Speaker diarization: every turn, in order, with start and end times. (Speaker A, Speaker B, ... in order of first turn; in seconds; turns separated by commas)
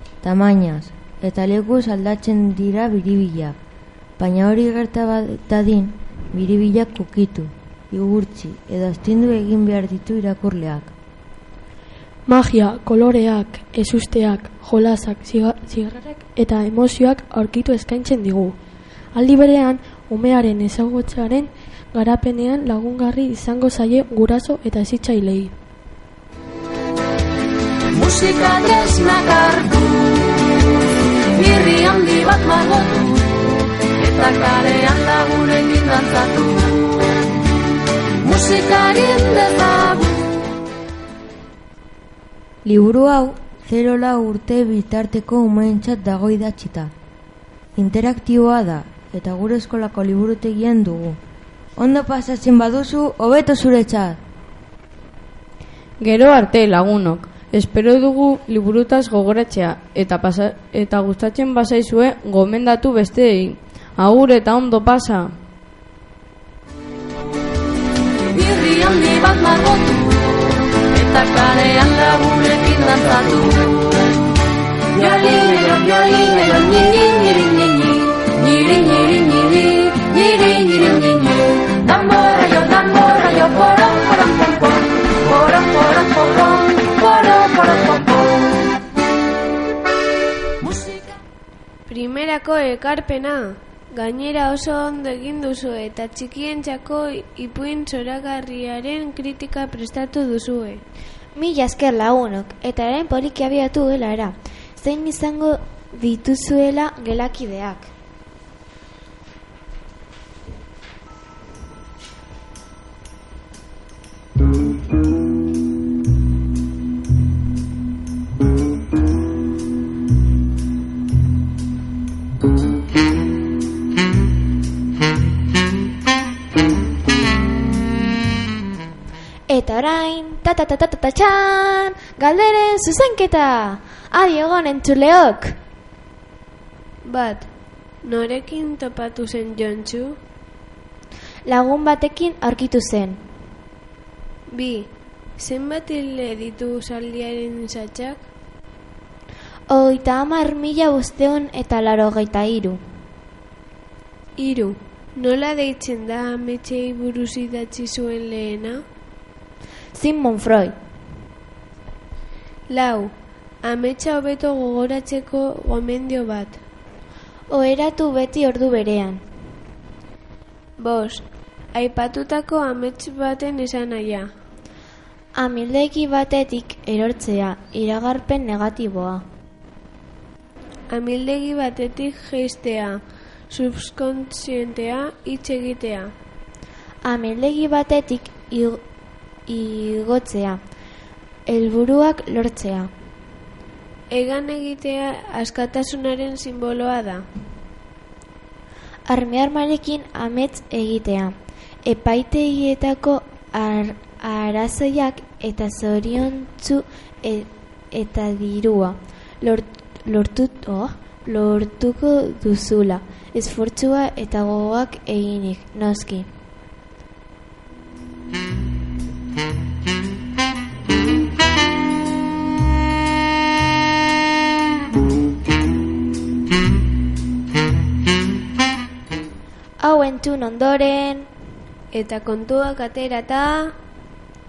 Speaker A: 0.2-3.5, Speaker A: 4.2-10.9, Speaker B: 12.2-18.6, Speaker B: 19.1-25.5, Speaker C: 27.9-30.5, Speaker C: 31.3-33.3, Speaker C: 34.0-37.0, Speaker C: 38.2-40.2, Speaker A: 42.6-46.9, Speaker A: 47.8-51.2, Speaker A: 51.8-54.2, Speaker D: 56.0-65.3, Speaker C: 68.3-73.9, Speaker C: 75.0-88.4, Speaker C: 90.6-91.1, Speaker E: 91.9-100.8, Speaker F: 101.3-107.9, Speaker F: 129.5-135.5, Speaker E: 137.1-137.5, Speaker E: 138.0-140.2, Speaker F: 141.5-143.2, Speaker E: 144.5-148.2, Speaker F: 149.7-152.8, Speaker E: 154.4-158.8, Speaker F: 159.9-160.7, Speaker E: 162.7-163.1, Speaker E: 163.6-166.6, Speaker F: 167.5-169.2, Speaker E: 170.8-171.2, Speaker E: 171.7-174.2, Speaker F: 175.4-179.2, Speaker E: 180.9-183.0, Speaker E: 183.5-186.1, Speaker F: 187.0-188.8, Speaker F: 189.5-190.6, Speaker F: 191.5-192.9, Speaker E: 194.1-197.2, Speaker F: 199.1-216.3, Speaker F: 229.8-231.3, Speaker E: 231.9-233.7